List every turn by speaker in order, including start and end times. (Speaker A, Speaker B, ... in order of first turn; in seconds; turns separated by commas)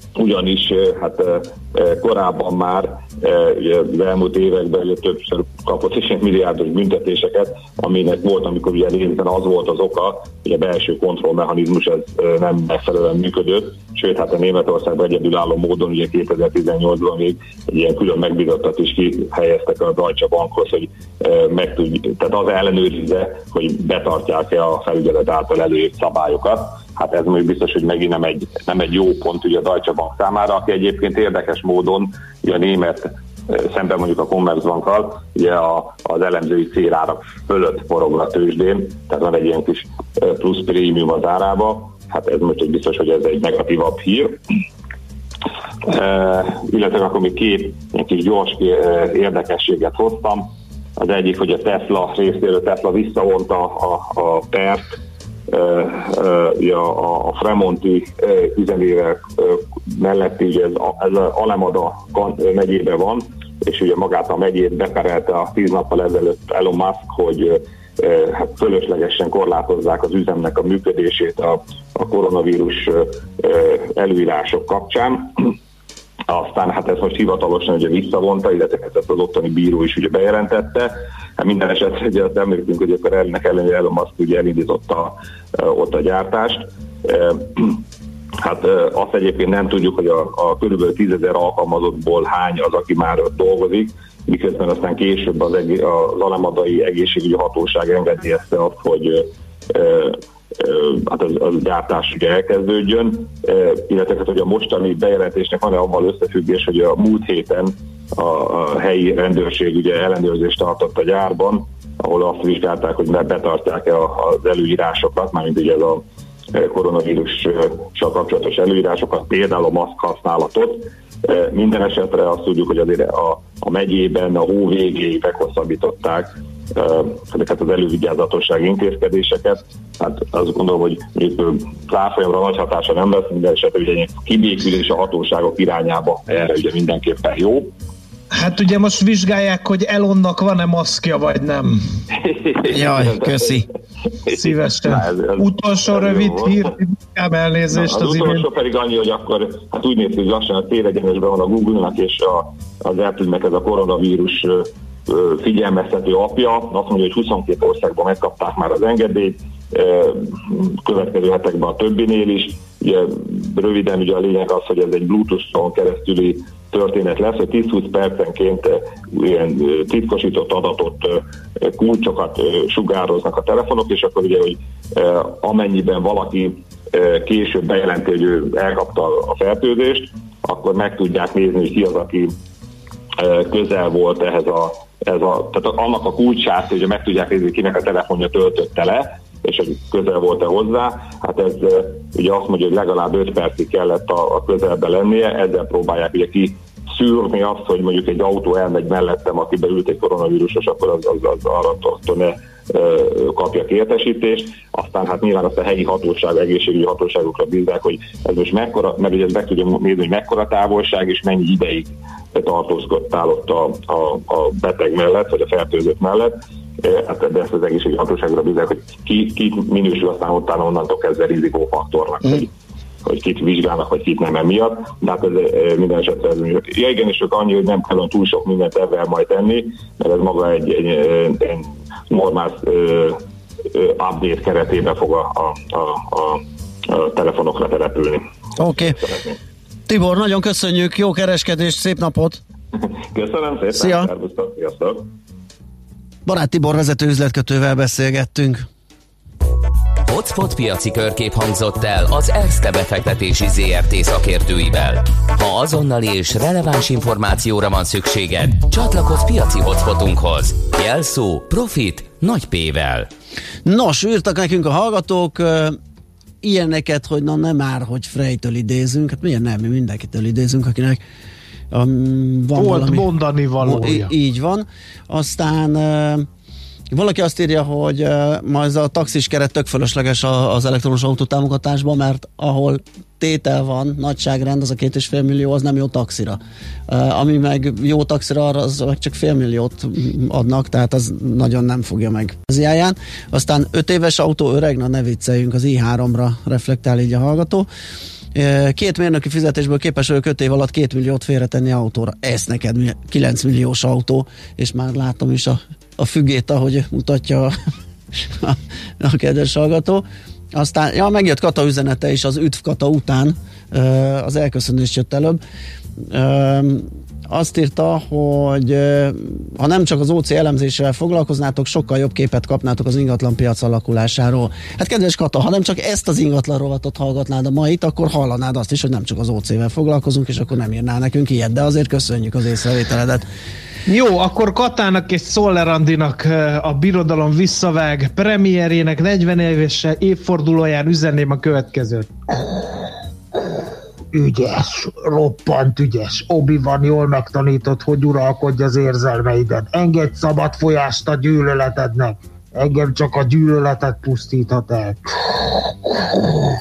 Speaker A: 0.2-44.4, Speaker A: 45.8-55.0, Speaker A: 55.5-75.3, Speaker A: 76.3-87.8, Speaker A: 88.4-137.7, Speaker B: 138.3-141.8, Speaker A: 142.1-143.6, Speaker C: 142.7-143.7, Speaker A: 144.2-146.7, Speaker B: 144.3-148.5, Speaker A: 147.7-182.3, Speaker A: 183.2-222.5, Speaker A: 223.1-233.2, Speaker A: 233.7-239.4, Speaker C: 238.6-239.0, Speaker C: 239.9-242.4, Speaker A: 242.8-245.1, Speaker C: 243.7-244.1, Speaker C: 246.2-248.7, Speaker D: 250.1-263.1, Speaker C: 263.6-265.8, Speaker C: 266.4-271.0, Speaker C: 271.7-276.3, Speaker B: 272.5-274.1, Speaker C: 276.9-297.7, Speaker C: 298.4-307.6, Speaker C: 308.4-315.4, Speaker C: 316.1-333.3, Speaker B: 333.9-342.1, Speaker E: 344.1-355.5